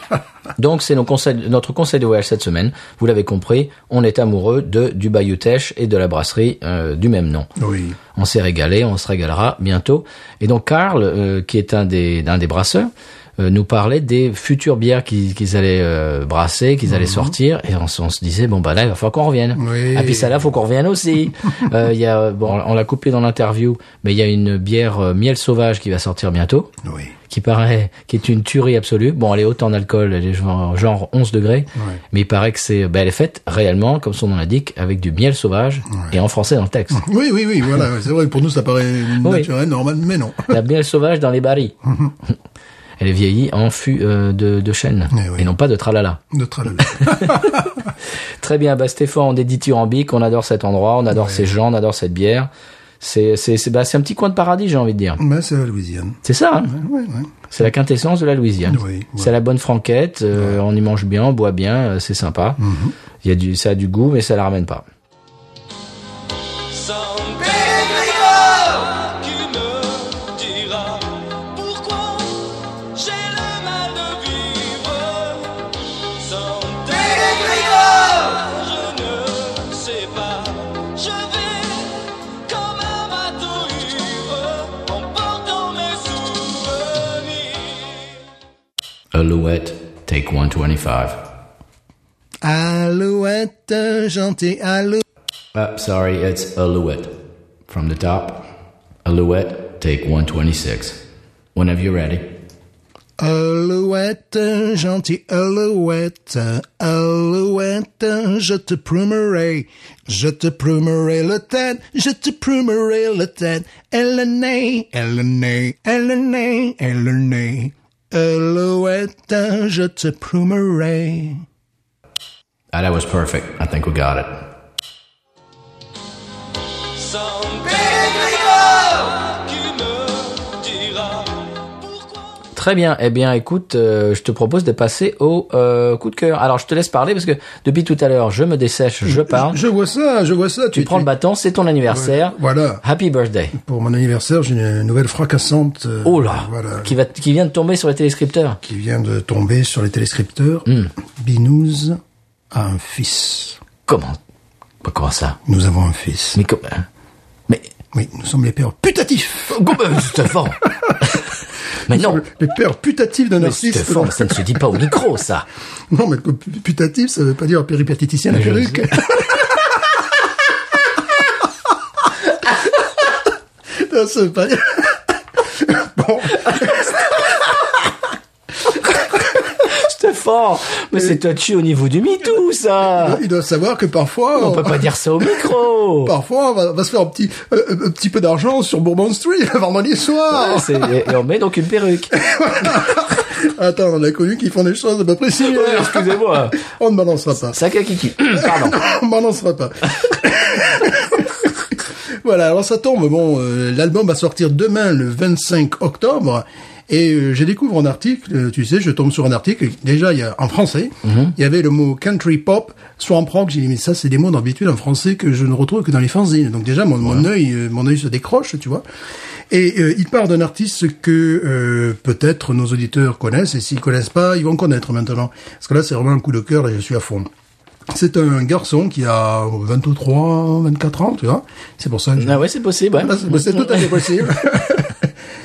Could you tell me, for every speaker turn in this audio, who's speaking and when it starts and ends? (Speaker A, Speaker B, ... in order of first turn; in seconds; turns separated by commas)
Speaker A: 0.6-7.5, Speaker B: 7.6-8.0, Speaker A: 8.1-26.7, Speaker B: 16.9-17.3, Speaker B: 19.6-20.5, Speaker B: 26.8-27.1, Speaker A: 27.3-37.0, Speaker B: 31.7-32.0, Speaker B: 36.9-40.5, Speaker A: 39.2-39.5, Speaker A: 40.5-41.7, Speaker B: 41.9-42.1, Speaker A: 43.0-46.2, Speaker B: 45.1-45.5, Speaker B: 46.3-47.7, Speaker A: 46.8-47.7, Speaker A: 48.4-52.5, Speaker B: 51.1-51.5, Speaker A: 53.0-55.2, Speaker B: 55.2-57.3, Speaker A: 56.2-56.7, Speaker A: 57.5-62.6, Speaker B: 58.6-59.3, Speaker B: 62.6-62.9, Speaker A: 63.2-64.8, Speaker C: 66.7-88.1, Speaker A: 89.1-91.3, Speaker B: 92.4-95.0, Speaker A: 95.5-98.5, Speaker A: 99.0-101.0, Speaker A: 101.5-102.3, Speaker B: 103.2-121.4, Speaker A: 122.7-124.4, Speaker C: 126.9-132.2, Speaker A: 132.6-139.6, Speaker B: 139.0-141.1, Speaker A: 140.7-143.6, Speaker B: 141.9-142.8, Speaker B: 143.5-146.9, Speaker A: 146.0-148.6, Speaker B: 148.6-152.0, Speaker A: 150.7-150.9, Speaker B: 152.5-153.6, Speaker A: 153.8-154.2, Speaker A: 154.8-155.4, Speaker B: 155.4-156.4, Speaker A: 156.3-156.9, Speaker B: 157.9-159.7, Speaker A: 159.5-161.2, Speaker A: 161.9-162.2, Speaker B: 161.9-164.8, Speaker A: 163.4-165.4, Speaker B: 165.9-169.8, Speaker A: 168.3-169.1, Speaker B: 172.4-172.8, Speaker B: 173.7-177.7, Speaker A: 179.6-183.2, Speaker B: 182.9-185.5, Speaker A: 184.3-186.1, Speaker B: 186.0-191.1, Speaker A: 190.3-192.2, Speaker B: 192.1-197.6, Speaker A: 195.4-196.6, Speaker A: 197.5-198.8, Speaker B: 198.3-201.6, Speaker B: 202.2-218.8, Speaker A: 211.0-211.3, Speaker B: 219.5-227.3, Speaker B: 227.9-232.4, Speaker A: 232.2-234.0, Speaker B: 232.9-235.1